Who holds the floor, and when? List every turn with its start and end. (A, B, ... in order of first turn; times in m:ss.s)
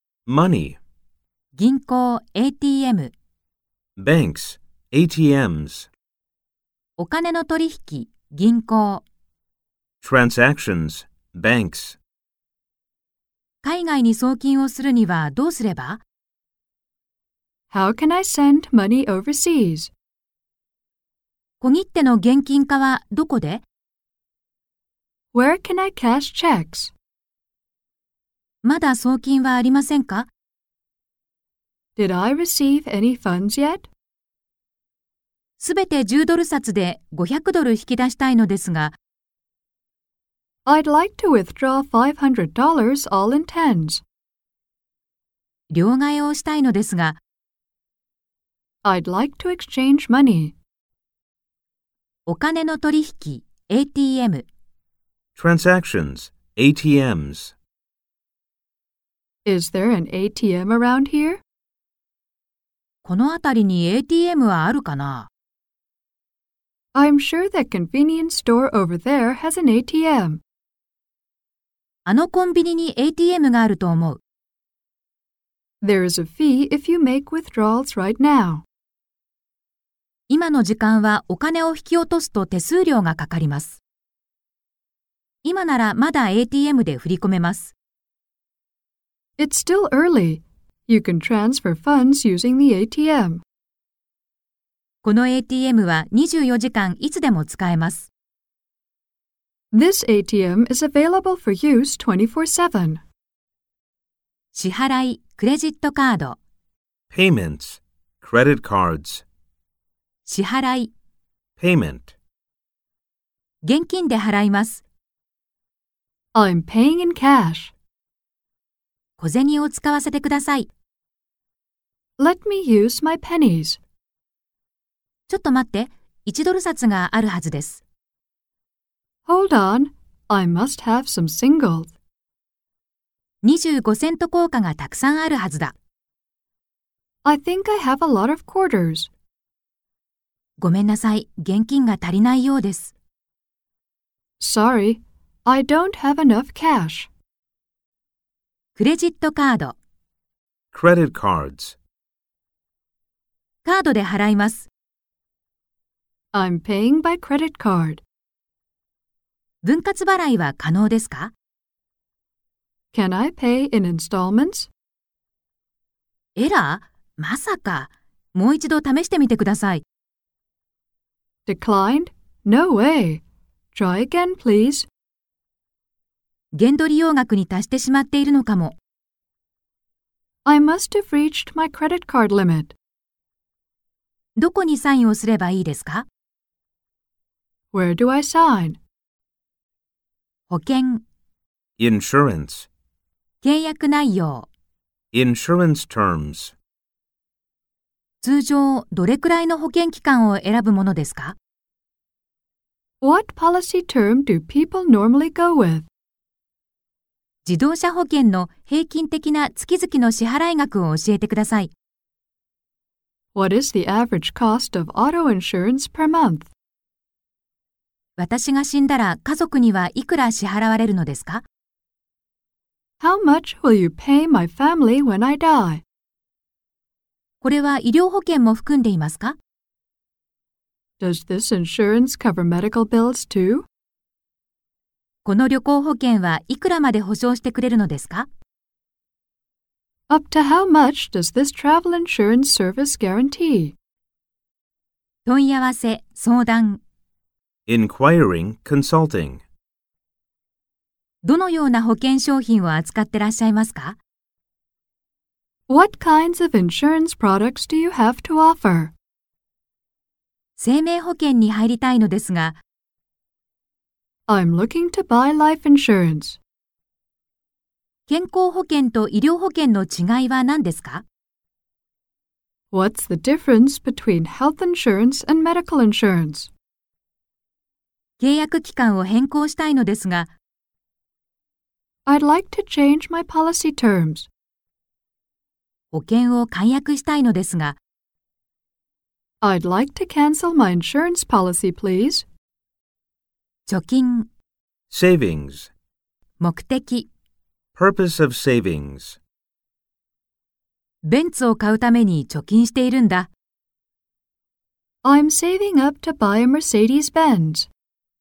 0:00.3-0:00.8 A
0:01.6-0:03.1 B
0:04.0-0:05.9 A
0:07.0-0:09.0 B
0:10.0-0:12.0 A
0:13.6-0:16.0 B
0:17.7-0:19.9 C
0:21.6-0:23.6 B
0:25.3-0:26.9 C
0:28.6-0:30.3 B
0:32.0-0:33.9 C
0:35.6-0:39.0 B
0:40.7-0:44.0 C
0:45.7-0:47.2 B
0:48.8-0:50.6 C
0:52.3-0:54.4 B
0:55.4-0:57.6 A
0:59.5-1:01.4 C
1:03.0-1:05.3 B
1:07.0-1:10.4 C
1:12.1-1:14.2 B
1:15.8-1:18.6 C
1:20.3-1:23.8 B
1:25.4-1:27.7 B
1:29.4-1:33.4 C
1:35.0-1:38.1 B
1:39.7-1:43.0 C
1:44.5-1:46.4 B
1:47.1-1:49.2 A
1:50.3-1:50.9 B
1:51.6-1:52.1 A
1:53.6-1:54.8 B
1:56.3-1:57.7 C
1:59.2-2:00.7 B
2:02.2-2:03.8 C
2:05.3-2:07.8 B
2:09.3-2:11.9 C
2:13.4-2:15.7 B
2:17.2-2:19.1 C
2:20.6-2:22.9 B
2:24.4-2:27.1 C
2:28.8-2:29.8 B
2:30.7-2:31.8 A
2:33.6-2:34.7 B
2:36.3-2:38.0 C
2:39.6-2:41.3 B
2:42.9-2:44.7 C
2:46.4-2:49.8 B
2:51.5-2:53.2 C
2:53.7-2:54.9 C
2:56.5-2:58.8 B
3:00.4-3:02.7 C
3:04.4-3:06.1 B
3:07.7-3:08.8 C
3:10.5-3:11.0 B
3:11.8-3:12.7 A
3:13.4-3:14.5 B
3:15.1-3:16.6 A
3:18.2-3:21.4 B
3:23.0-3:25.9 C
3:27.4-3:31.7 B
3:33.4-3:36.5 C
3:38.2-3:41.4 B
3:43.0-3:45.8 C
3:47.4-3:49.4 B
3:51.0-3:53.6 C
3:55.2-3:58.3 B
4:00.1-4:03.8 C
4:05.3-4:06.8 B
4:07.7-4:09.4 A
4:11.2-4:14.0 B
4:15.7-4:18.9 C
4:20.6-4:22.6 B
4:24.3-4:26.4 C
4:28.1-4:31.0 B
4:32.7-4:36.5 C
4:38.2-4:40.3 B
4:42.1-4:44.3 C
4:45.9-4:47.8 B
4:49.4-4:52.2 C
4:53.7-4:54.3 B
4:54.9-4:55.7 A
4:56.4-4:57.1 B
4:57.8-4:59.2 A
5:01.0-5:03.3 B
5:05.0-5:07.7 C